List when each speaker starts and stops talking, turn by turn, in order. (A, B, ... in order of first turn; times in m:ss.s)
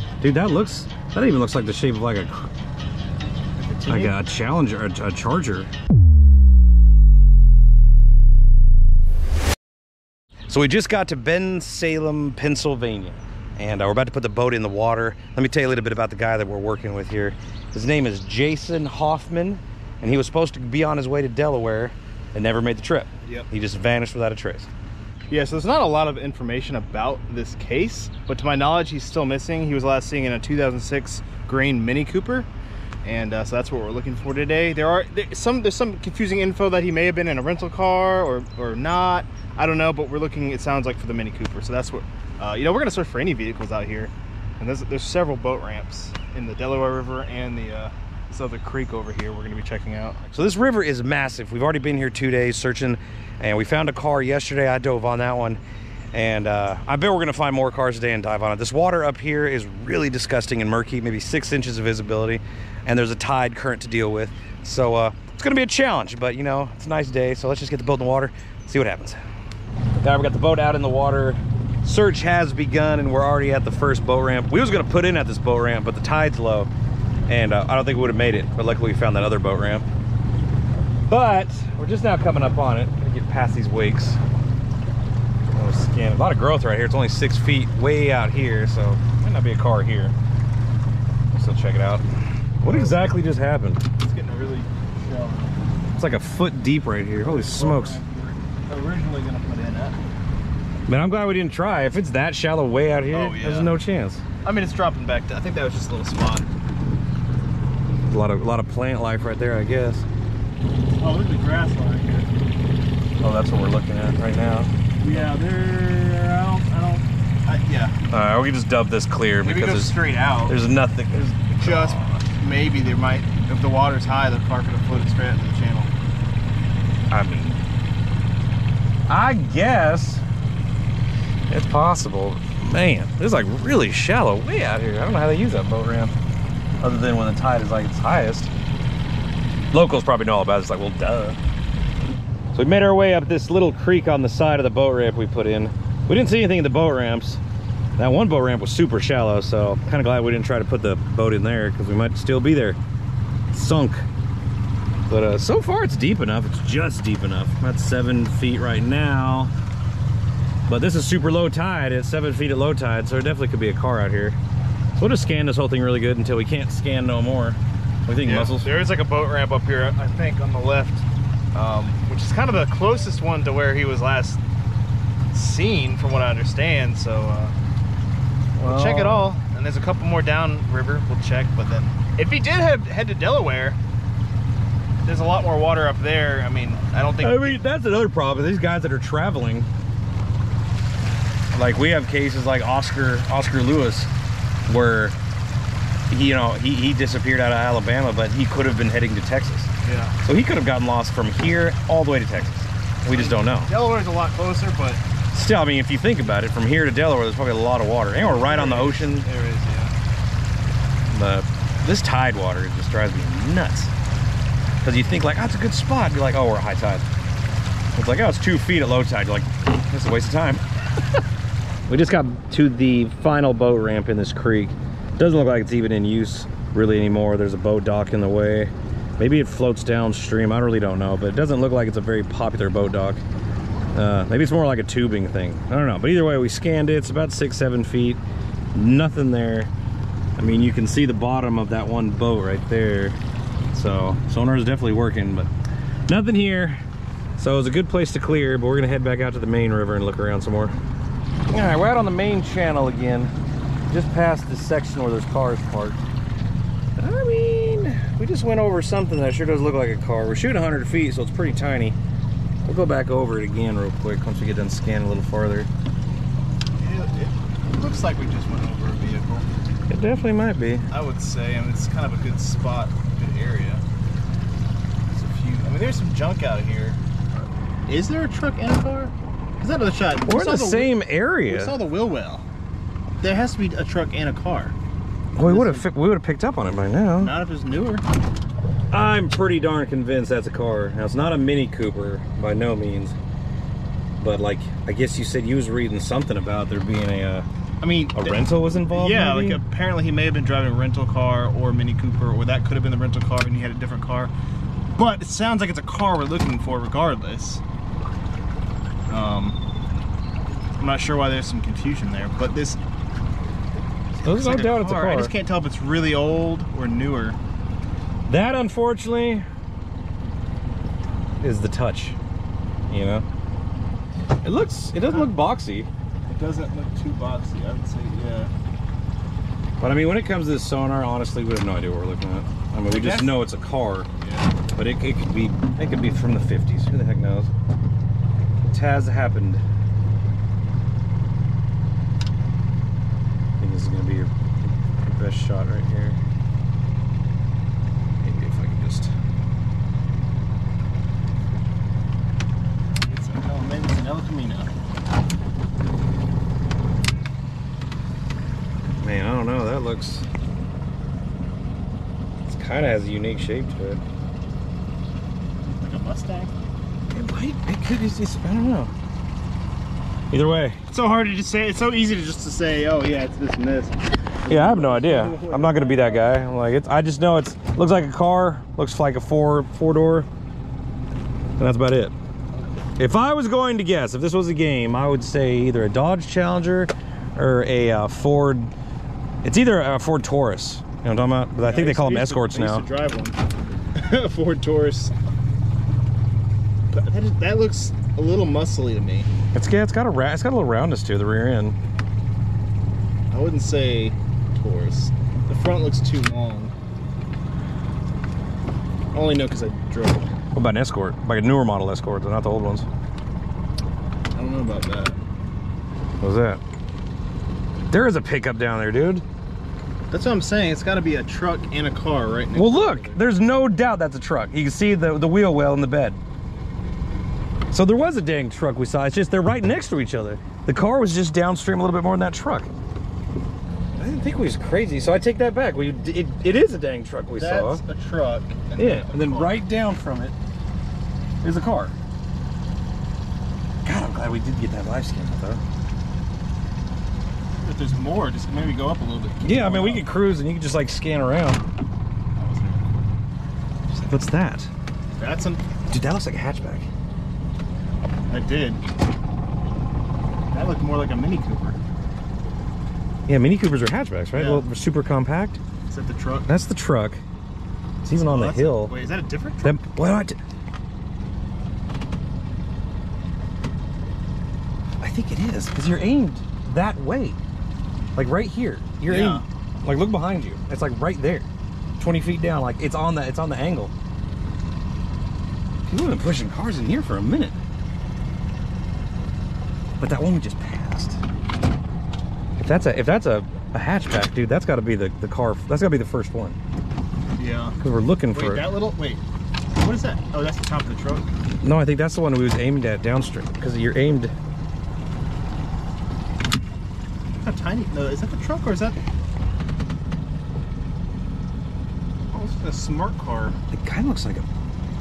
0:00.2-0:02.5 A
0:03.6-0:04.1 B
0:03.8-0:05.7 A
0:10.5-0:24.7 A
0:25.3-0:32.5 B
0:33.0-0:50.3 B
0:50.3-0:55.6 A
0:56.1-1:09.2 A
1:10.0-1:16.7 A
1:17.3-1:19.8 A
1:21.1-1:24.2 A
1:25.5-1:30.1 A
1:31.3-1:32.0 A
1:32.6-1:33.8 A
1:32.6-1:33.1 B
1:34.0-1:35.6 B
1:36.0-1:38.0 A
1:37.2-1:40.0 B
1:40.9-1:44.2 A
1:43.1-1:43.7 B
1:44.4-1:46.4 B
1:48.1-1:50.0 A
1:50.9-1:52.3 B
1:53.2-1:55.2 A
1:55.0-1:58.0 B
1:58.1-2:02.2 A
1:59.4-2:00.6 B
2:01.6-2:05.9 B
2:07.1-2:07.6 A
2:09.1-2:10.2 A
2:11.5-2:16.1 A
2:16.8-2:18.5 A
2:19.7-2:21.4 A
2:22.5-2:27.4 A
2:28.0-2:32.8 A
2:33.5-2:34.0 A
2:35.1-2:39.5 A
2:40.7-2:44.4 A
2:45.0-2:48.7 A
2:48.2-2:54.4 B
2:55.3-2:57.6 B
2:58.6-2:59.3 A
2:58.6-3:03.8 B
3:05.0-3:07.6 B
3:07.2-3:09.7 A
3:11.5-3:14.1 A
3:14.7-3:15.2 A
3:16.1-3:19.7 A
3:19.8-3:20.2 B
3:20.2-3:23.7 A
3:23.1-3:25.0 B
3:25.3-3:29.3 A
3:28.2-3:29.9 B
3:31.1-3:33.9 A
3:34.8-3:37.0 A
3:37.9-3:40.6 A
3:41.9-3:53.2 A
3:53.9-3:58.2 A
3:58.7-3:59.7 A
4:00.4-4:03.2 A
4:03.7-4:05.5 A
4:06.1-4:06.8 A
4:07.4-4:10.8 A
4:11.5-4:13.3 A
4:13.9-4:16.0 A
4:17.0-4:22.0 A
4:22.6-4:25.7 A
4:26.8-4:29.4 B
4:29.9-4:30.9 A
4:30.9-4:33.8 B
4:35.1-4:37.0 B
4:37.9-4:40.9 B
4:40.2-4:41.8 A
4:41.5-4:42.4 B
4:43.2-4:44.7 B
4:45.3-4:47.3 A
4:45.4-4:45.9 B
4:47.2-4:48.0 B
4:48.9-4:53.1 A
4:54.2-4:57.5 A
4:57.8-5:04.3 B
4:58.1-4:59.6 A
5:04.9-5:07.6 B
5:09.1-5:09.6 B
5:10.8-5:12.8 B
5:14.2-5:17.4 B
5:14.2-5:15.3 A
5:18.3-5:19.4 A
5:21.4-5:22.2 A
5:22.9-5:23.2 A
5:24.4-5:25.9 A
5:26.2-5:28.5 B
5:29.8-5:34.1 A
5:32.9-5:33.4 B
5:34.2-5:34.6 B
5:34.7-5:37.5 A
5:38.6-5:39.6 A
5:43.6-5:46.2 A
5:48.2-5:49.1 A
5:53.1-5:54.7 B
5:59.0-6:00.2 A
6:02.4-6:04.0 A
6:05.8-6:06.5 B
6:07.1-6:08.9 A
6:10.3-6:10.8 A
6:10.9-6:16.3 B
6:14.5-6:20.3 A
6:21.6-6:22.1 A
6:23.0-6:28.7 A
6:29.4-6:32.9 A
6:31.6-6:33.4 B
6:34.0-6:35.1 B
6:36.9-6:39.3 B
6:39.5-6:41.8 A
6:43.3-6:46.7 B
6:49.1-6:50.3 B
6:50.5-6:52.8 A
6:54.3-6:55.2 B
6:56.2-6:56.6 A
6:57.9-6:59.2 A
7:00.1-7:03.2 B
7:02.5-7:06.2 A
7:07.7-7:12.7 A
7:14.0-7:17.8 A
7:17.4-7:19.6 B
7:18.8-7:20.3 A
7:21.4-7:21.9 A
7:23.8-7:25.6 A
7:27.6-7:30.0 B
7:29.4-7:31.6 A
7:32.4-7:33.1 B
7:33.9-7:34.7 A
7:35.2-7:35.6 B
7:35.9-7:36.9 A
7:38.3-7:38.8 B
7:40.5-7:41.8 B
7:43.3-7:45.6 A
7:44.3-7:44.6 B
7:45.9-7:46.5 B
7:46.5-7:47.2 A
7:48.0-7:48.9 A
7:48.2-7:49.8 B
7:49.6-7:50.4 A
7:55.0-7:57.4 A
7:58.1-8:01.5 A
7:59.0-7:59.4 B
8:02.0-8:03.9 A
8:05.9-8:07.6 A
8:10.0-8:11.2 A
8:12.6-8:16.6 A
8:17.4-8:17.8 B
8:17.8-8:18.7 A
8:18.3-8:19.2 B
8:19.7-8:21.3 B
8:21.6-8:24.3 A
8:27.4-8:29.0 B
8:32.3-8:33.6 B
8:33.7-8:34.5 A